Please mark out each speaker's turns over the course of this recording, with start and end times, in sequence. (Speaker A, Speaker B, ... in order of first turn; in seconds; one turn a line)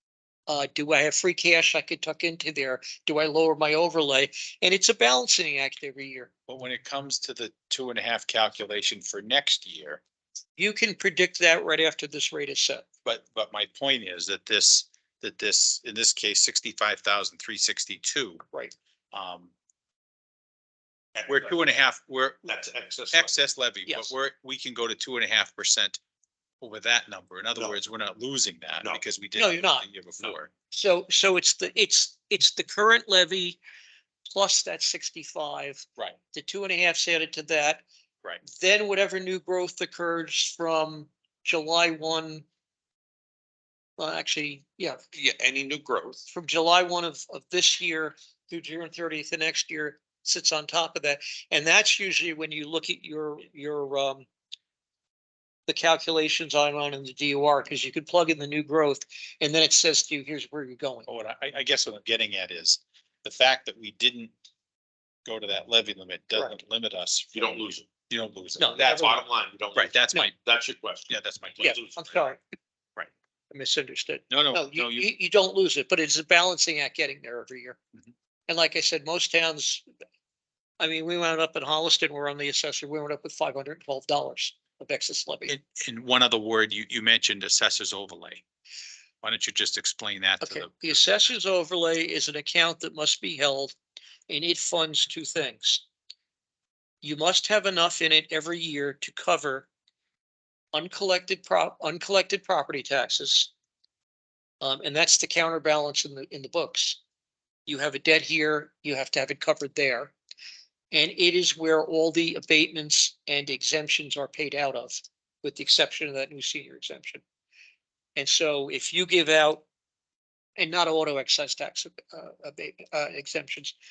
Speaker A: 0.5-6.3
Speaker B: 6.5-10.0
Speaker A: 10.6-12.8
Speaker B: 13.1-18.4
Speaker B: 19.1-19.5
Speaker C: 21.1-21.6
Speaker B: 21.3-22.5
Speaker C: 22.5-23.4
Speaker B: 23.1-26.0
Speaker A: 23.9-24.1
Speaker B: 26.6-30.5
Speaker A: 29.4-29.9
Speaker A: 30.7-33.6
Speaker A: 34.3-37.8
Speaker A: 38.4-42.5
Speaker A: 44.0-45.0
Speaker C: 45.1-46.3
Speaker A: 46.3-54.3
Speaker A: 55.7-61.1
Speaker B: 61.1-64.3
Speaker B: 65.2-69.2
Speaker C: 67.3-67.9
Speaker A: 68.6-69.1
Speaker C: 68.8-72.2
Speaker B: 69.8-70.3
Speaker B: 71.1-71.9
Speaker A: 71.6-72.4
Speaker A: 73.5-77.8
Speaker B: 74.3-75.1
Speaker A: 78.5-79.8
Speaker A: 80.8-85.5
Speaker B: 85.5-88.4
Speaker B: 89.2-91.0
Speaker A: 90.4-93.8
Speaker A: 94.3-95.8
Speaker A: 97.0-99.7
Speaker A: 100.7-103.5
Speaker A: 104.6-107.0
Speaker A: 107.7-110.1
Speaker A: 110.9-117.2
Speaker A: 118.2-119.7
Speaker A: 120.6-123.8